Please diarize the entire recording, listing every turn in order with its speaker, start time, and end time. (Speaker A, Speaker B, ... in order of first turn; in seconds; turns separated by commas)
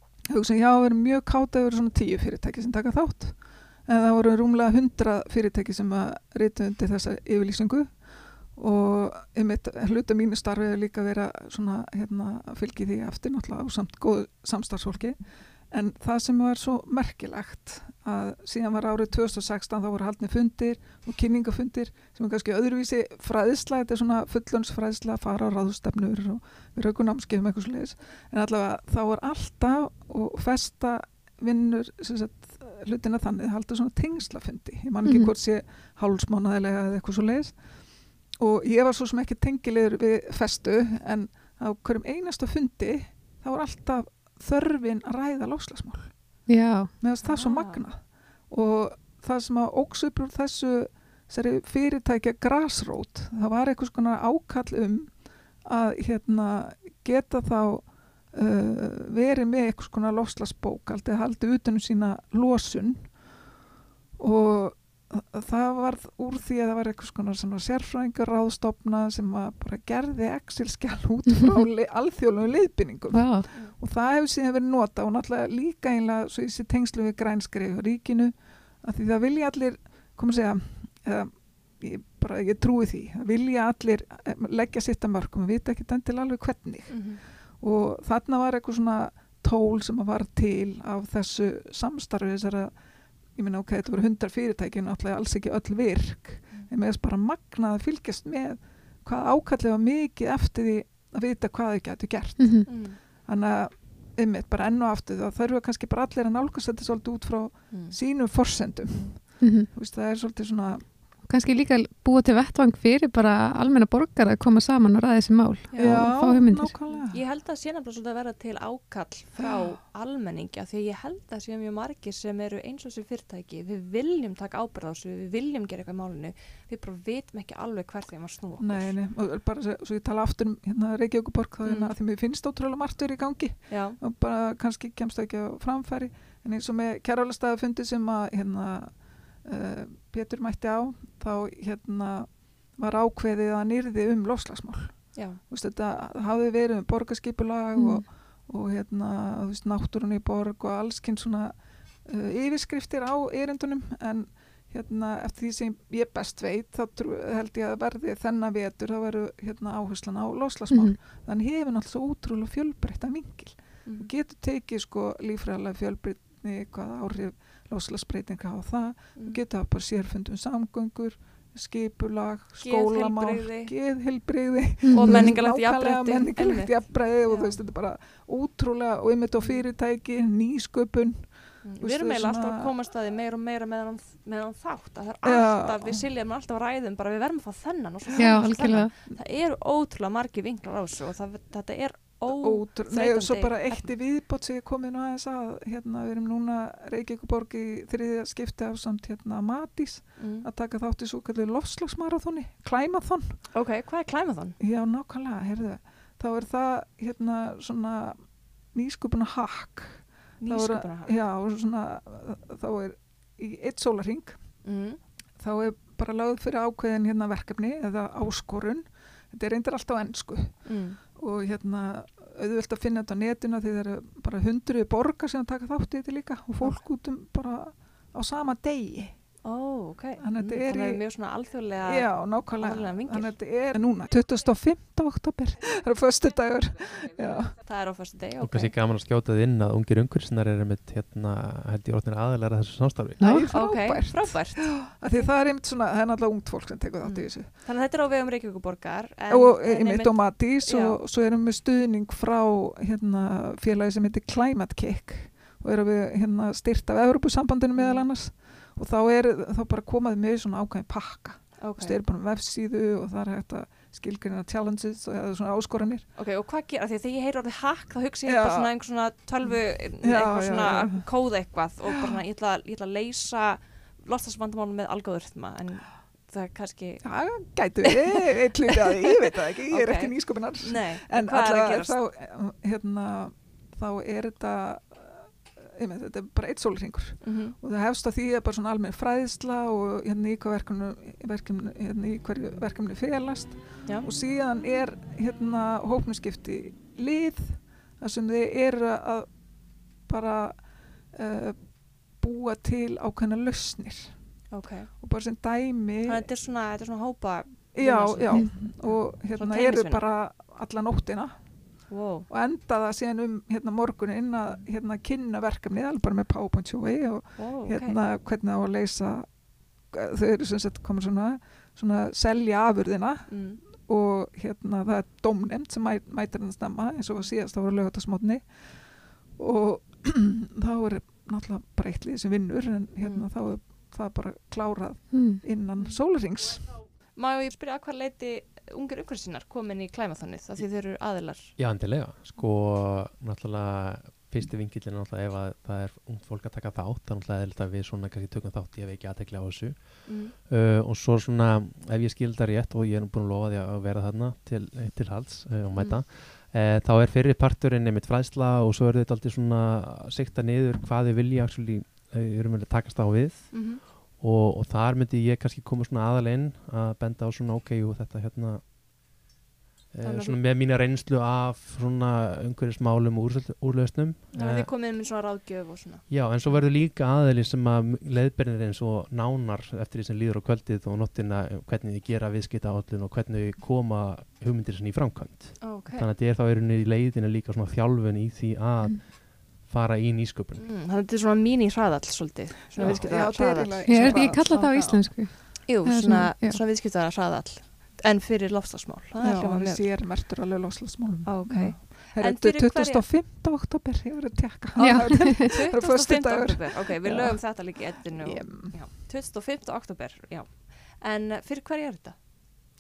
Speaker A: 0.3-37.7, Speaker B: 35.0-35.3, Speaker A: 38.3-46.1, Speaker B: 46.5-46.9, Speaker A: 47.0-63.2, Speaker C: 47.2-47.8, Speaker A: 64.2-92.8, Speaker B: 73.1-73.5, Speaker C: 86.9-87.2, Speaker A: 93.3-110.9, Speaker B: 102.4-102.7, Speaker C: 102.7-103.0, Speaker C: 107.7-108.0, Speaker B: 109.4-109.7, Speaker B: 111.2-116.8, Speaker C: 115.7-116.1, Speaker A: 115.8-117.2, Speaker C: 116.9-129.0, Speaker A: 128.6-182.7, Speaker C: 131.6-131.9, Speaker C: 133.7-134.0, Speaker C: 145.2-145.4, Speaker B: 147.8-148.1, Speaker B: 160.7-161.0, Speaker C: 163.8-164.1, Speaker C: 169.2-169.4, Speaker C: 172.6-173.7, Speaker B: 174.9-175.3, Speaker C: 174.9-177.6, Speaker C: 181.6-193.9, Speaker A: 185.2-186.1, Speaker A: 188.1-189.2, Speaker B: 188.2-188.9, Speaker A: 192.3-203.4, Speaker C: 200.2-200.5, Speaker C: 203.5-204.6, Speaker A: 204.6-214.4, Speaker C: 210.4-211.2, Speaker C: 214.6-215.0, Speaker A: 215.4-229.2, Speaker C: 220.6-221.0, Speaker C: 229.4-233.3, Speaker A: 230.2-231.2, Speaker A: 231.8-237.6, Speaker C: 237.6-238.8, Speaker D: 238.4-243.2, Speaker B: 243.2-243.5, Speaker A: 243.2-247.5, Speaker C: 243.5-245.3, Speaker C: 247.0-251.0, Speaker A: 249.3-266.1, Speaker C: 257.8-258.1, Speaker C: 261.6-262.0, Speaker C: 266.1-277.2, Speaker A: 268.2-268.7, Speaker A: 269.4-271.1, Speaker A: 277.0-299.3, Speaker C: 279.7-282.0, Speaker C: 287.2-287.6, Speaker A: 300.1-304.4, Speaker C: 304.5-304.9, Speaker A: 305.0-306.3, Speaker C: 306.1-310.0, Speaker A: 307.7-311.5, Speaker C: 311.9-312.3, Speaker A: 312.3-319.3, Speaker C: 317.4-318.0, Speaker A: 319.9-336.8, Speaker C: 323.3-323.6, Speaker C: 333.0-333.3, Speaker B: 335.1-335.4, Speaker C: 337.1-341.6, Speaker D: 341.6-368.6, Speaker C: 350.1-350.4, Speaker C: 355.7-356.0, Speaker C: 363.5-363.8, Speaker D: 369.9-374.7, Speaker C: 370.0-370.4, Speaker C: 374.3-376.6, Speaker D: 376.1-390.7, Speaker C: 385.6-386.1, Speaker C: 390.6-399.9, Speaker A: 392.8-395.0, Speaker D: 392.8-393.3, Speaker B: 393.9-396.6, Speaker A: 399.2-408.9, Speaker C: 401.2-403.1, Speaker B: 404.8-405.5, Speaker C: 405.4-412.2